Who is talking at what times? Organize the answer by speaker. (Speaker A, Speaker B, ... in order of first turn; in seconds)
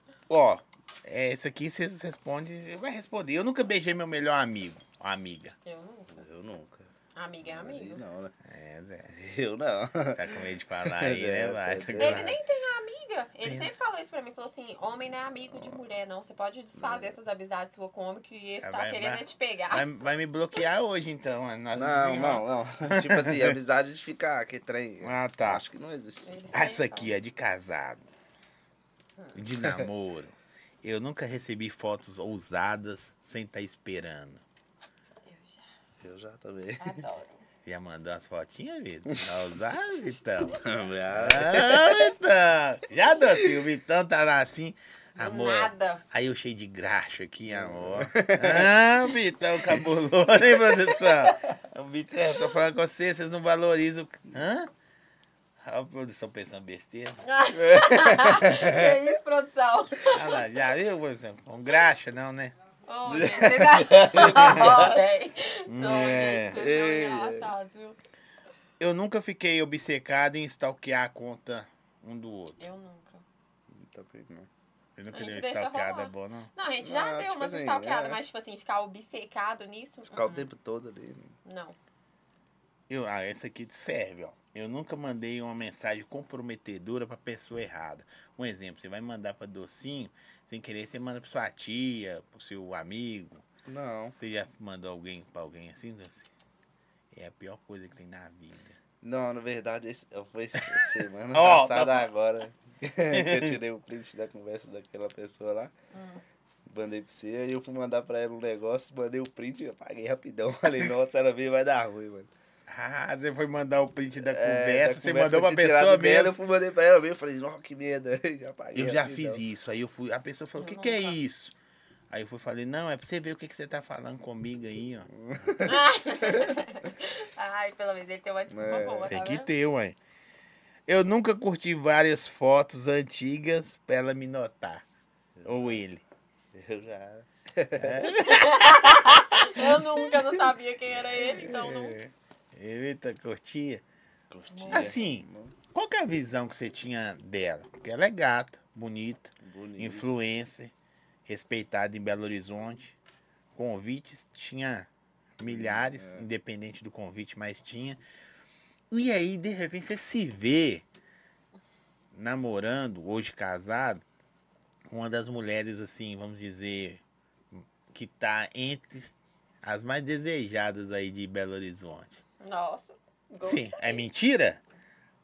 Speaker A: 0.3-5.5, 8.4-9.2, 10.1-12.4, 13.4-13.7, 18.6-23.6, 25.0-25.6, 26.5-28.1, 29.3-34.4, 37.6-54.7, 55.6-57.2, 60.0-62.5, 64.4-64.7, 65.7-66.6, 68.8-72.6, 75.0-76.5, 82.9-93.5, 94.1-96.3, 97.1-98.8, 100.5-102.1, 103.1-103.6, 112.7-116.3, 118.7-121.5, 122.1-125.1, 129.1-130.0, 130.9-134.8, 135.4-136.0, 137.8-139.9, 141.1-143.8, 144.7-150.7, 151.3-152.9, 153.5-158.0, 158.9-160.8, 162.1-164.0, 164.9-169.1, 169.6-172.2, 173.4-174.6
Speaker B: 5.6-6.3, 7.1-8.0, 11.9-19.9, 26.2-27.1, 35.2-35.6, 36.8-37.5, 45.2-46.0, 57.2-60.4, 62.9-68.0, 72.6-73.2, 75.1-80.5, 81.4-81.8, 105.9-106.2, 120.5-121.2, 125.6-129.5, 138.2-142.0, 144.5-145.0, 172.4-174.1
Speaker C: 6.1-6.9, 7.4-8.3, 9.1-12.3, 15.5-15.8, 16.8-17.2, 21.7-26.5, 36.0-37.0, 40.6-42.2, 47.5-48.7, 57.5-58.9, 63.1-65.0, 66.5-67.5, 73.7-74.5, 76.8-78.2, 80.1-81.3, 93.7-94.2, 99.0-105.7, 106.7-112.3, 114.2-119.4, 125.1-126.5, 128.5-129.1, 135.4-135.8, 136.5-138.1, 144.3-145.6, 149.4-150.1, 155.4-156.3